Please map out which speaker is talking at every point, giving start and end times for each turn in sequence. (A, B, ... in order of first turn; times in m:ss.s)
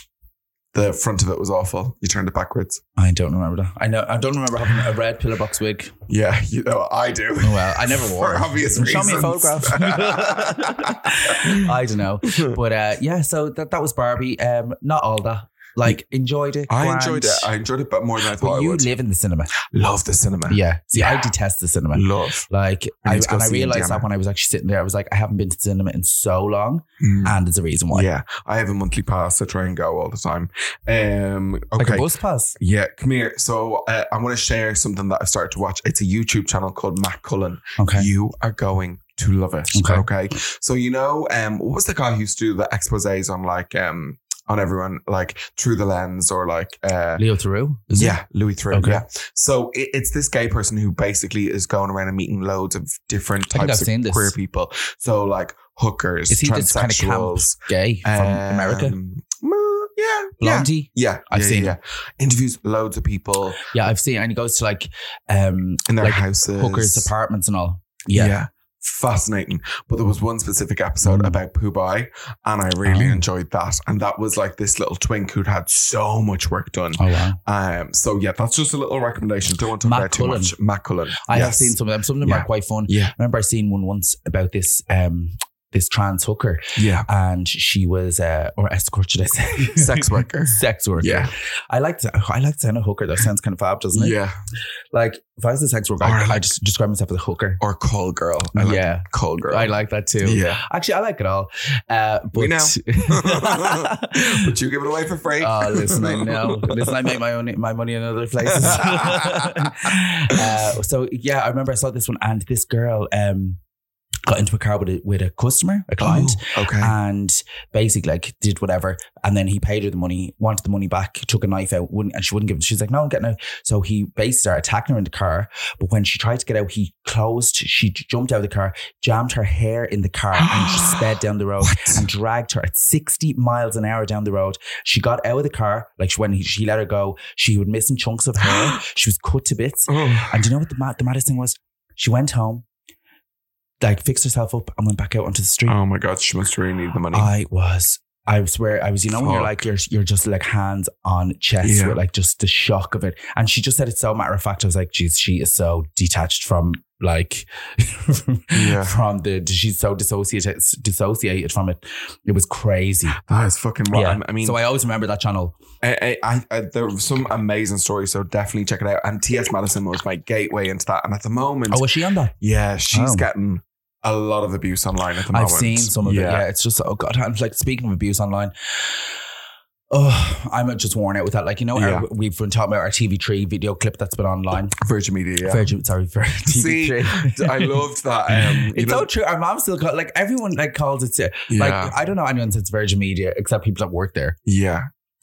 0:00.7-0:02.8 A
0:03.0-0:06.0 B
0:06.1-0:11.7 A
0:07.4-0:17.5 B
0:16.7-0:18.9 A
0:18.3-0:19.5 B
0:19.6-0:21.3 A
0:20.5-0:28.1 B
0:21.9-0:22.4 A
0:23.0-0:24.0 A
0:27.0-0:27.3 A
0:27.9-0:32.0 A
0:31.8-0:32.6 B
0:32.6-0:47.2 A
0:37.8-0:38.1 B
0:39.7-0:40.1 B
0:47.2-0:48.2 B
0:47.9-1:03.6 A
0:48.7-0:49.0 B
0:53.5-0:54.3 B
0:56.3-0:59.0 B
1:00.4-1:01.8 B
1:03.7-1:08.4 B
1:05.9-1:07.1 A
1:08.1-1:21.7 A
1:11.0-1:11.4 B
1:12.8-1:13.2 B
1:17.0-1:17.4 B
1:19.8-1:20.6 B
1:21.2-1:34.2 B
1:22.2-1:23.1 A
1:26.8-1:27.1 A
1:29.7-1:31.3 A
1:33.9-1:34.4 A
1:34.9-1:37.6 B
1:36.0-1:36.5 A
1:37.6-1:39.7 A
1:38.5-1:44.3 B
1:40.2-1:40.6 A
1:42.3-1:47.0 A
1:45.4-1:53.6 B
1:48.5-1:49.8 A
1:54.3-2:22.6 B
1:56.0-1:56.9 A
2:10.4-2:11.0 A
2:11.6-2:12.0 A
2:18.4-2:18.8 A
2:19.9-2:20.5 A
2:23.8-2:25.8 B
2:25.6-2:27.3 A
2:27.1-2:43.2 B
2:29.2-2:29.5 A
2:31.6-2:32.0 A
2:38.5-2:39.0 A
2:43.2-2:44.6 A
2:43.9-2:45.6 B
2:45.8-2:51.9 A
2:51.7-2:52.3 B
2:52.4-2:56.4 A
2:52.9-2:53.3 B
2:55.3-2:59.0 B
2:59.9-3:04.7 B
3:01.8-3:02.0 A
3:04.8-3:05.7 A
3:05.4-3:14.4 B
3:06.5-3:09.1 A
3:11.5-3:11.9 A
3:14.4-3:14.9 A